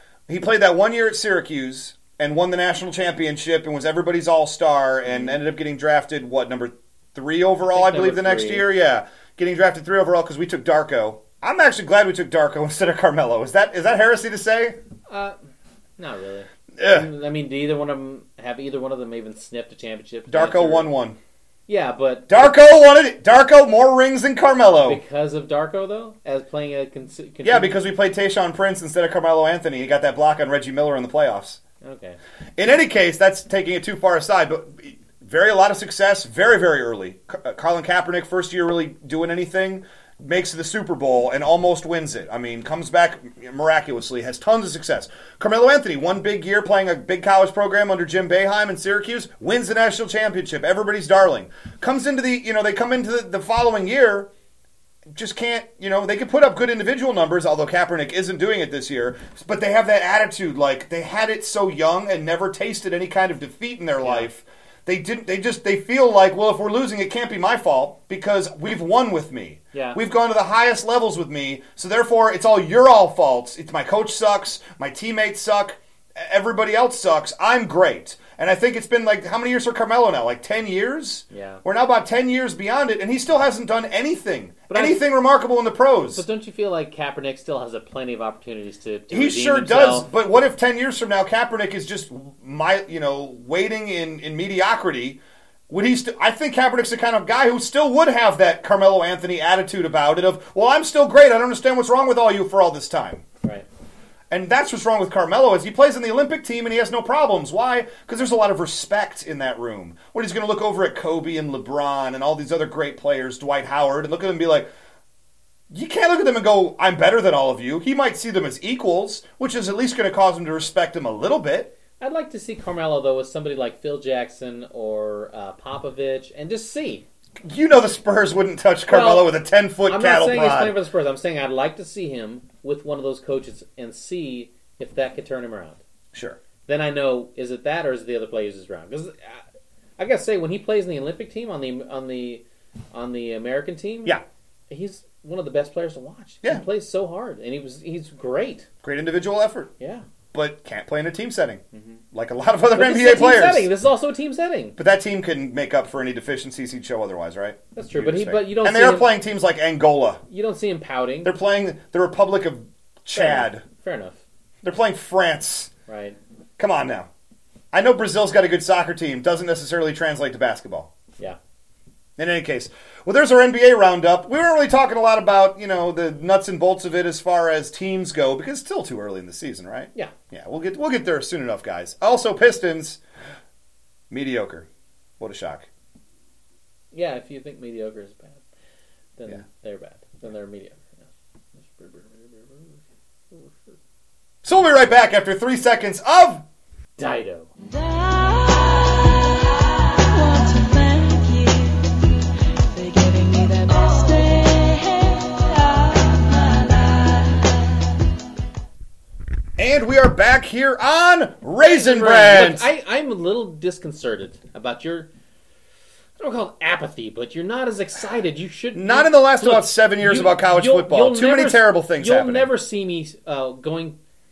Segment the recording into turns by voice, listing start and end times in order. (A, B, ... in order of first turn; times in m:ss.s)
0:00.3-0:14.8 A
0:05.1-0:05.4 B
0:07.7-0:08.7 B
0:15.1-0:15.4 B
0:16.0-0:20.9 B
0:16.8-0:17.1 A
0:20.3-0:21.2 A
0:21.7-0:22.4 B
0:22.3-0:25.0 A
0:24.8-0:27.8 B
0:27.4-0:31.6 A
0:31.8-0:32.2 B
0:32.6-0:54.3 A
0:55.1-1:26.2 A
1:04.0-1:04.3 B
1:09.7-1:10.0 B
1:21.3-1:21.6 B
1:24.7-1:25.0 B
1:26.1-1:30.1 B
1:29.1-1:35.2 A
1:35.7-1:43.2 A
1:44.3-1:54.7 A
1:55.7-2:01.7 A
2:02.0-2:07.0 B
2:07.4-2:10.8 A
2:08.9-2:09.3 B
2:09.8-2:15.8 B
2:16.1-2:16.4 A
2:16.7-2:19.4 B
2:20.0-2:24.2 B
2:24.7-2:28.7 B
2:28.8-2:29.7 A
2:29.8-2:30.0 B
2:30.3-2:31.6 A
2:31.7-2:32.0 B
2:32.1-2:33.7 A
2:32.7-2:34.8 B
2:34.8-2:40.2 A
2:37.8-2:39.1 B
2:40.3-2:41.3 B
2:41.2-2:43.6 A
2:43.1-2:44.2 B
2:44.6-2:45.7 A
2:45.9-2:46.2 B
2:46.6-2:47.1 A
2:47.7-2:50.9 A
2:52.2-3:03.0 A
3:04.1-3:04.7 A
3:05.2-3:05.7 A
3:06.9-3:08.4 B
3:09.2-3:11.0 B
3:11.6-3:13.8 B
3:14.4-3:16.4 A
3:17.0-3:17.5 B
3:17.7-3:27.8 C
3:29.6-3:32.7 A
3:31.6-3:35.1 B
3:36.2-3:44.0 B
3:38.7-3:42.5 A